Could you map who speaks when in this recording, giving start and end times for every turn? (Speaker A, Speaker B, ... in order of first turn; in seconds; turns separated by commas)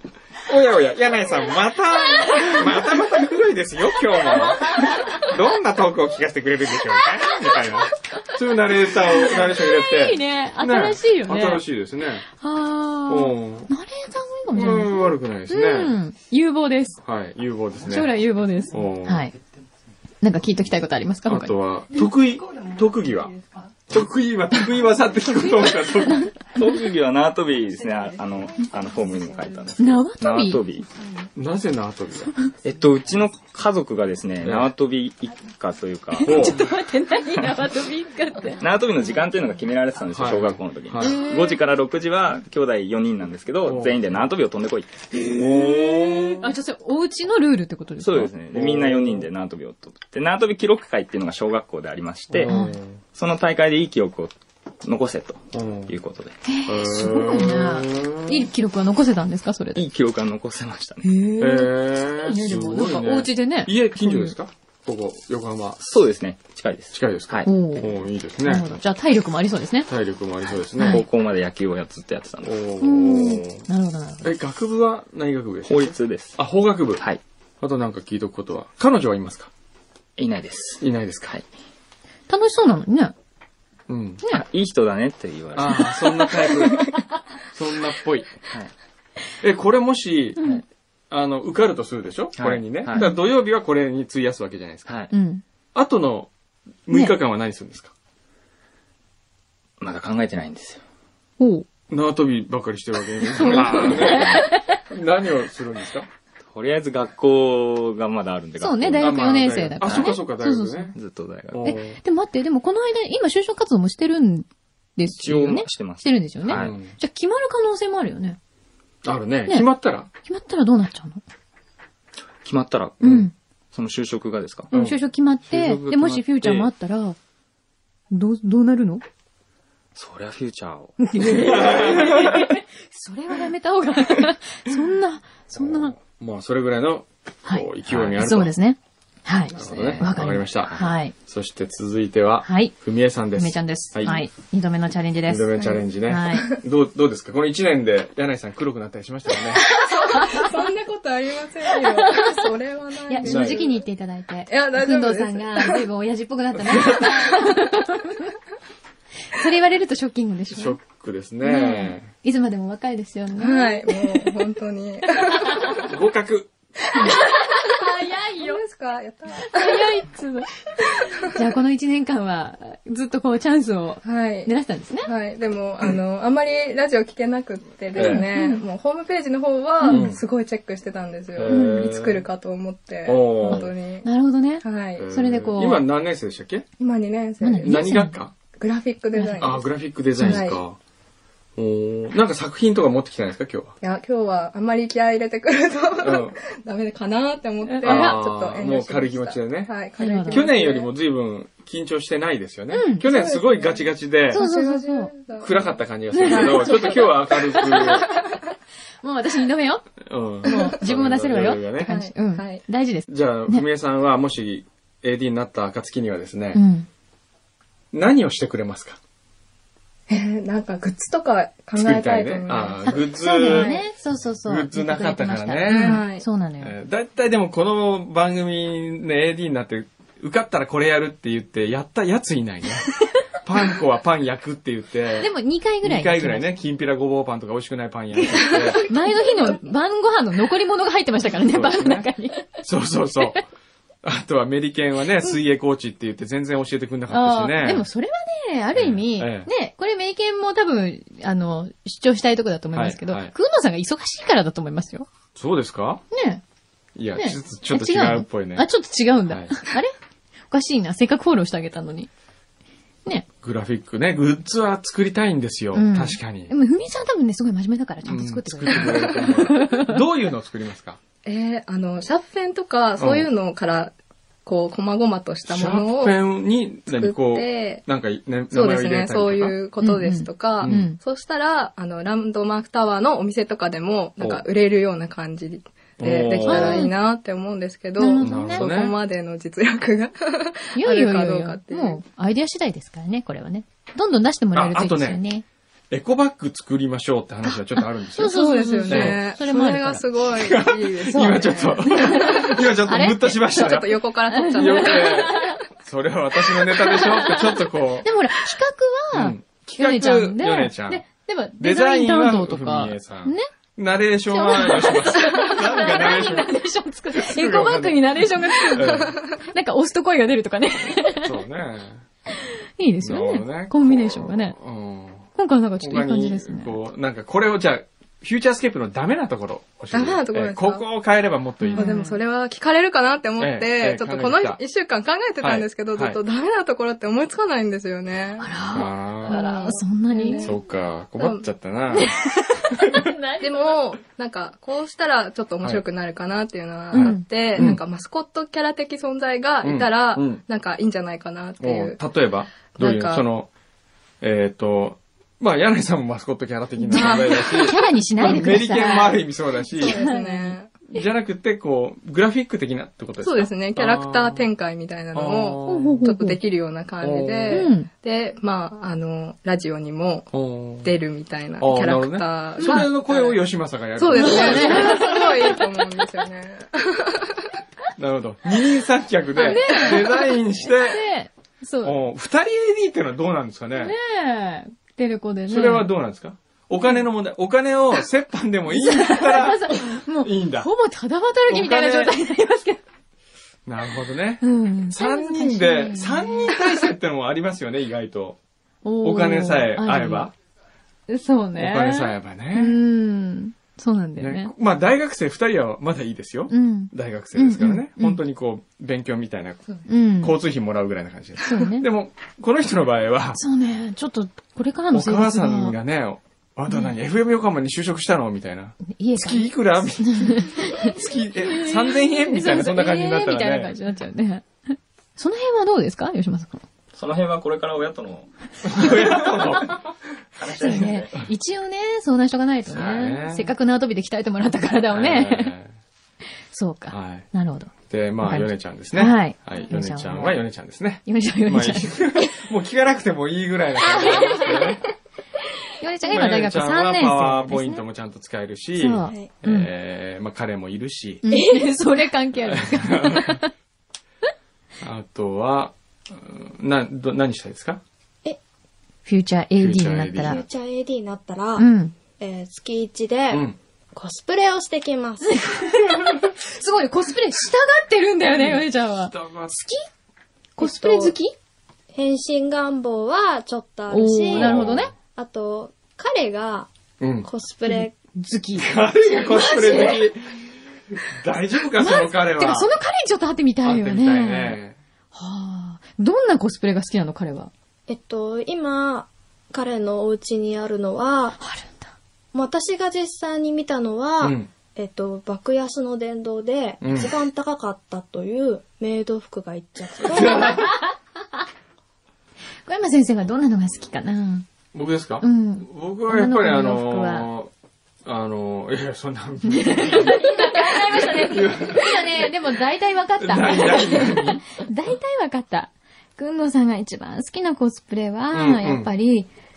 Speaker A: 0.5-12.2, Speaker B: 2.0-2.9, Speaker B: 4.2-5.3, Speaker B: 8.9-11.6, Speaker B: 12.3-17.0, Speaker A: 13.1-13.7, Speaker A: 14.5-15.9, Speaker A: 17.0-18.1, Speaker B: 17.8-19.3, Speaker A: 18.7-19.2, Speaker B: 20.2-21.5, Speaker A: 21.3-23.4, Speaker A: 23.9-26.3, Speaker B: 25.8-26.3, Speaker C: 26.5-30.9, Speaker B: 29.8-30.6, Speaker A: 31.4-32.3, Speaker C: 32.6-36.6, Speaker A: 34.4-34.7, Speaker B: 36.2-38.6, Speaker A: 36.2-36.7, Speaker C: 38.6-45.3, Speaker A: 40.1-41.2, Speaker B: 41.0-41.6, Speaker A: 43.6-44.2, Speaker A: 45.2-46.4, Speaker B: 45.3-48.3, Speaker C: 48.0-52.5, Speaker A: 48.5-49.3, Speaker A: 52.3-53.0, Speaker B: 52.5-52.8, Speaker C: 53.1-56.3, Speaker A: 55.5-55.9, Speaker B: 56.4-59.8, Speaker A: 56.7-58.4, Speaker C: 59.7-61.0, Speaker B: 61.0-64.3, Speaker A: 61.4-65.8, Speaker C: 65.8-67.5, Speaker A: 66.9-68.7, Speaker B: 67.4-67.9, Speaker B: 68.4-69.9, Speaker A: 69.9-71.0, Speaker B: 70.8-71.0, Speaker C: 70.8-72.5, Speaker A: 72.4-73.6, Speaker B: 72.8-74.3, Speaker A: 74.2-77.0, Speaker C: 75.6-76.4, Speaker A: 77.6-79.5, Speaker C: 80.2-81.4, Speaker A: 80.8-81.4, Speaker B: 82.3-83.1, Speaker A: 83.9-84.2, Speaker C: 84.3-86.5, Speaker A: 85.5-86.9, Speaker A: 87.5-88.3, Speaker A: 89.4-90.4, Speaker B: 90.4-90.6, Speaker A: 91.1-94.9, Speaker C: 92.3-93.0, Speaker C: 94.8-95.1, Speaker B: 95.1-95.4, Speaker A: 95.7-96.3, Speaker A: 96.8-97.9, Speaker C: 99.8-100.8, Speaker B: 101.4-101.7, Speaker A: 101.9-106.1, Speaker B: 103.3-104.8, Speaker C: 103.4-104.4, Speaker C: 106.4-109.2, Speaker B: 108.6-110.9, Speaker A: 109.0-110.9, Speaker C: 109.8-110.2, Speaker C: 110.9-111.7, Speaker A: 111.5-112.0, Speaker B: 111.6-118.4, Speaker C: 115.1-116.8, Speaker A: 116.5-116.9, Speaker A: 119.0-120.1, Speaker B: 120.2-121.2, Speaker C: 122.4-123.0, Speaker B: 123.0-123.3, Speaker A: 123.0-123.3, Speaker C: 123.7-124.7, Speaker A: 124.7-125.0, Speaker B: 124.7-127.2, Speaker C: 125.5-126.6, Speaker B: 128.1-129.0, Speaker C: 129.9-130.9, Speaker B: 131.0-135.9, Speaker A: 131.2-132.4, Speaker A: 136.0-138.5, Speaker B: 137.4-141.1, Speaker C: 137.9-138.3, Speaker C: 139.5-140.1, Speaker A: 139.5-140.7, Speaker A: 141.2-144.2, Speaker B: 142.4-142.7, Speaker B: 143.3-146.5, Speaker A: 145.3-149.7, Speaker D: 145.6-145.8, Speaker D: 149.7-153.8, Speaker B: 149.8-150.5, Speaker B: 151.8-152.3, Speaker B: 153.1-158.3, Speaker A: 153.2-153.6, Speaker D: 154.5-155.8, Speaker A: 156.7-157.2, Speaker B: 159.3-160.8, Speaker A: 160.5-162.1, Speaker B: 161.4-164.3, Speaker D: 163.4-165.8, Speaker A: 165.8-166.5, Speaker B: 167.1-168.6, Speaker D: 168.4-170.0, Speaker B: 169.4-175.1, Speaker D: 174.0-174.5, Speaker D: 175.0-184.1, Speaker A: 177.9-178.2, Speaker B: 177.9-178.6, Speaker A: 179.9-180.2, Speaker A: 181.3-182.2, Speaker B: 181.5-181.9, Speaker A: 183.0-183.7, Speaker B: 183.5-185.8, Speaker D: 184.6-185.0, Speaker A: 185.0-186.7, Speaker D: 186.8-187.9, Speaker B: 187.4-188.2, Speaker A: 187.6-188.3, Speaker D: 188.6-190.6, Speaker B: 189.1-189.5, Speaker A: 189.4-190.8, Speaker B: 190.2-190.5, Speaker A: 191.6-193.7, Speaker D: 193.8-200.9, Speaker A: 196.0-196.3, Speaker B: 197.6-198.2, Speaker A: 197.8-199.8, Speaker B: 200.0-200.5, Speaker A: 200.3-204.4, Speaker B: 202.7-203.1, Speaker D: 203.1-208.2, Speaker B: 204.3-205.1, Speaker A: 205.4-208.1, Speaker B: 206.1-208.2, Speaker B: 209.0-209.9, Speaker A: 210.0-211.9, Speaker B: 210.4-213.6, Speaker D: 211.8-212.6, Speaker A: 213.1-216.6, Speaker B: 216.5-216.9, Speaker A: 217.9-219.0, Speaker D: 220.1-223.8, Speaker A: 221.8-223.7, Speaker B: 222.8-226.8, Speaker A: 224.4-226.0, Speaker D: 225.7-226.2, Speaker A: 226.6-235.3, Speaker B: 235.2-236.5, Speaker A: 235.8-238.8, Speaker B: 238.2-242.6, Speaker D: 238.5-238.9, Speaker A: 241.5-242.1, Speaker A: 242.6-243.4, Speaker A: 244.0-247.8, Speaker B: 247.1-255.1, Speaker A: 248.8-249.5, Speaker A: 252.7-253.3, Speaker A: 255.3-256.0, Speaker B: 256.1-256.4, Speaker A: 256.9-258.7, Speaker B: 257.1-259.9, Speaker A: 259.3-259.6, Speaker B: 260.5-262.1, Speaker A: 263.4-266.5, Speaker B: 265.7-270.0, Speaker A: 268.1-271.0, Speaker D: 271.2-273.9, Speaker A: 273.0-273.3, Speaker D: 274.4-276.1, Speaker A: 275.5-279.6, Speaker D: 276.9-277.8, Speaker D: 278.5-292.0, Speaker B: 279.8-281.0, Speaker A: 280.6-280.9, Speaker A: 284.2-284.4, Speaker A: 286.0-286.9, Speaker B: 286.5-286.9, Speaker B: 288.0-288.7, Speaker A: 288.2-288.9, Speaker B: 290.7-295.4, Speaker A: 294.5-295.2, Speaker A: 295.9-298.3, Speaker B: 297.4-300.0, Speaker D: 298.2-302.6, Speaker A: 298.9-299.2, Speaker A: 300.4-304.0, Speaker B: 301.1-305.6, Speaker D: 303.5-305.4, Speaker A: 304.5-308.1, Speaker B: 306.8-313.5, Speaker A: 309.1-311.0, Speaker A: 311.6-316.5, Speaker B: 314.3-321.3, Speaker A: 317.1-319.2, Speaker D: 318.9-319.1, Speaker A: 321.1-322.0, Speaker B: 322.8-324.6, Speaker A: 323.0-325.3, Speaker B: 325.4-326.8, Speaker A: 325.8-332.0, Speaker D: 329.9-330.8, Speaker B: 331.6-332.2, Speaker D: 331.7-338.5, Speaker A: 333.4-334.6, Speaker A: 335.4-336.2, Speaker B: 338.4-340.5, Speaker A: 338.7-339.7, Speaker D: 339.2-340.6, Speaker A: 340.4-342.1, Speaker D: 341.2-341.4, Speaker B: 341.9-343.7, Speaker D: 343.4-352.0, Speaker A: 346.9-347.8, Speaker B: 346.9-347.2, Speaker A: 349.6-350.4, Speaker A: 351.6-353.5, Speaker D: 352.6-353.2, Speaker A: 354.2-360.0, Speaker B: 356.8-359.2, Speaker D: 356.9-357.7, Speaker D: 359.8-360.7, Speaker B: 359.8-361.0, Speaker A: 360.9-364.4, Speaker D: 363.2-370.3, Speaker A: 365.1-366.0, Speaker B: 365.6-366.4, Speaker A: 367.0-367.6, Speaker B: 367.5-367.9, Speaker A: 370.3-370.9, Speaker D: 370.8-373.4, Speaker A: 371.6-375.6, Speaker B: 372.6-372.9, Speaker D: 374.0-377.4, Speaker B: 374.1-375.6, Speaker A: 378.0-381.0, Speaker B: 379.3-382.0, Speaker D: 379.4-379.9, Speaker A: 381.8-383.9, Speaker B: 383.8-385.9, Speaker A: 385.5-390.7, Speaker B: 388.7-392.8, Speaker A: 391.5-392.1, Speaker A: 393.6-398.4, Speaker B: 394.4-396.6, Speaker B: 398.8-400.3, Speaker A: 399.0-400.3, Speaker B: 401.1-404.5, Speaker A: 401.6-402.8, Speaker A: 404.2-413.4, Speaker B: 406.5-408.2, Speaker B: 409.9-410.4, Speaker B: 411.4-411.9, Speaker B: 413.3-415.7, Speaker A: 414.9-423.7, Speaker B: 418.9-426.6, Speaker C: 426.9-429.5, Speaker A: 428.6-429.8, Speaker C: 430.4-431.2, Speaker B: 430.6-435.5, Speaker A: 432.7-433.5, Speaker A: 434.9-435.7, Speaker B: 436.5-440.4, Speaker A: 436.9-437.2, Speaker A: 437.9-444.8, Speaker B: 441.1-442.3, Speaker B: 443.8-444.8, Speaker B: 445.8-447.8, Speaker A: 446.1-451.2, Speaker B: 448.7-449.7, Speaker B: 451.2-453.5, Speaker A: 452.5-453.4, Speaker A: 454.8-457.8, Speaker B: 459.1-460.4, Speaker A: 459.6-460.4, Speaker E: 460.2-461.6, Speaker B: 461.6-461.9, Speaker E: 462.2-465.3, Speaker A: 463.3-463.6, Speaker B: 465.2-469.8, Speaker A: 468.3-469.6, Speaker B: 470.6-471.3, Speaker E: 470.6-471.1, Speaker E: 471.9-476.7, Speaker B: 473.9-474.9, Speaker A: 474.3-474.9, Speaker A: 477.0-477.3, Speaker E: 477.2-477.9, Speaker B: 477.6-480.1, Speaker A: 478.6-480.2, Speaker A: 481.1-482.7, Speaker B: 481.8-484.6, Speaker A: 483.6-484.8, Speaker B: 485.1-487.5, Speaker E: 487.9-491.4, Speaker B: 491.4-491.9, Speaker E: 492.3-500.6, Speaker A: 494.2-494.5, Speaker A: 496.8-497.2, Speaker A: 500.0-500.7, Speaker B: 500.1-500.9, Speaker B: 502.6-504.5, Speaker A: 504.7-507.5, Speaker B: 505.2-507.3, Speaker A: 508.1-512.3, Speaker B: 509.4-519.3, Speaker A: 513.2-514.4, Speaker A: 518.3-518.9